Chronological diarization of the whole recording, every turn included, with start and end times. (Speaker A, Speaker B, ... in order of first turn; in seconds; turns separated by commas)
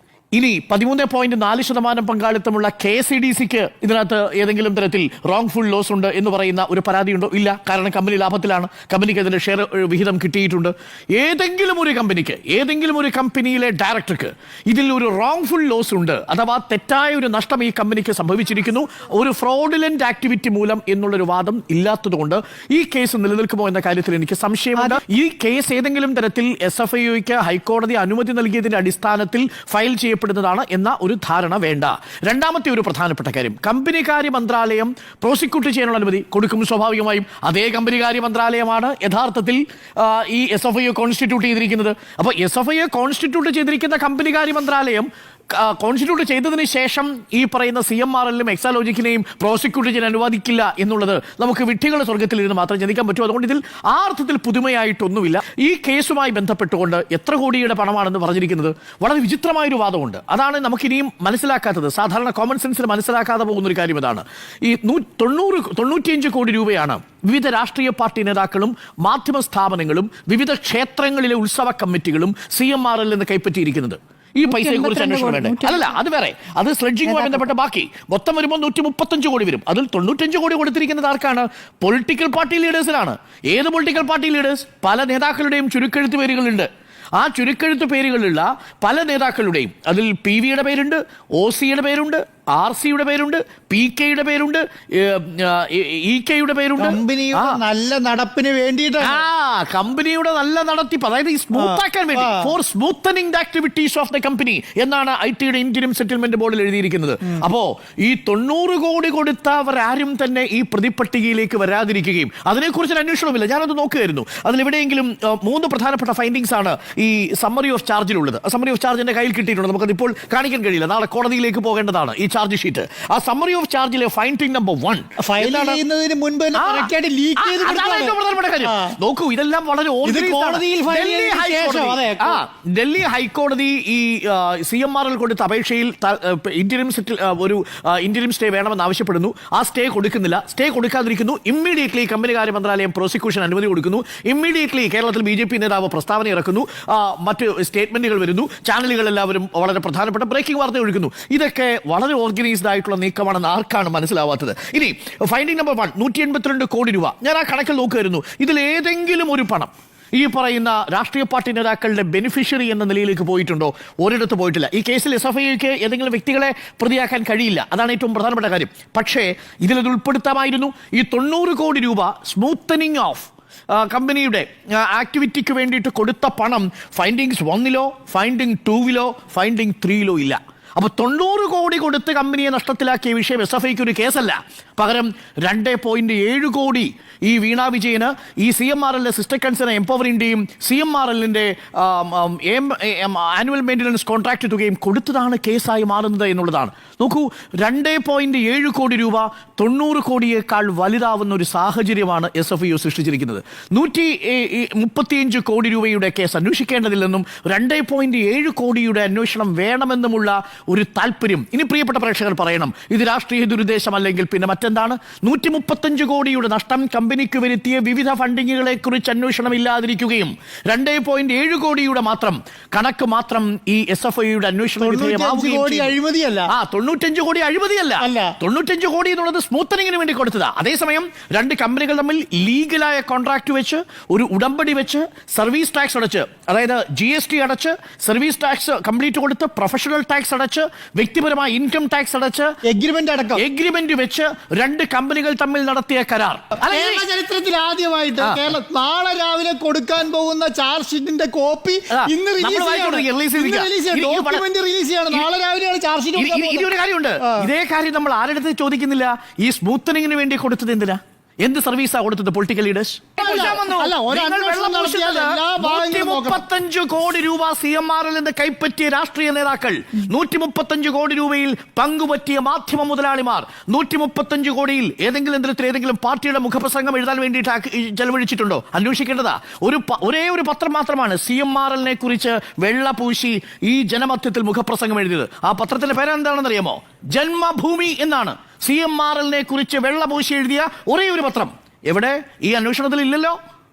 Speaker A: 0.3-97.6, Speaker B: 74.5-75.8, Speaker B: 96.8-99.2, Speaker A: 99.0-125.8, Speaker B: 101.5-102.5, Speaker B: 125.2-129.0, Speaker A: 126.5-225.9, Speaker B: 130.0-132.4, Speaker B: 224.8-226.5, Speaker A: 226.5-242.6, Speaker B: 228.0-228.3, Speaker B: 242.6-243.4, Speaker A: 243.3-247.0, Speaker B: 246.6-257.5, Speaker A: 248.2-248.4, Speaker A: 251.9-254.4, Speaker A: 256.1-293.4, Speaker B: 263.2-266.4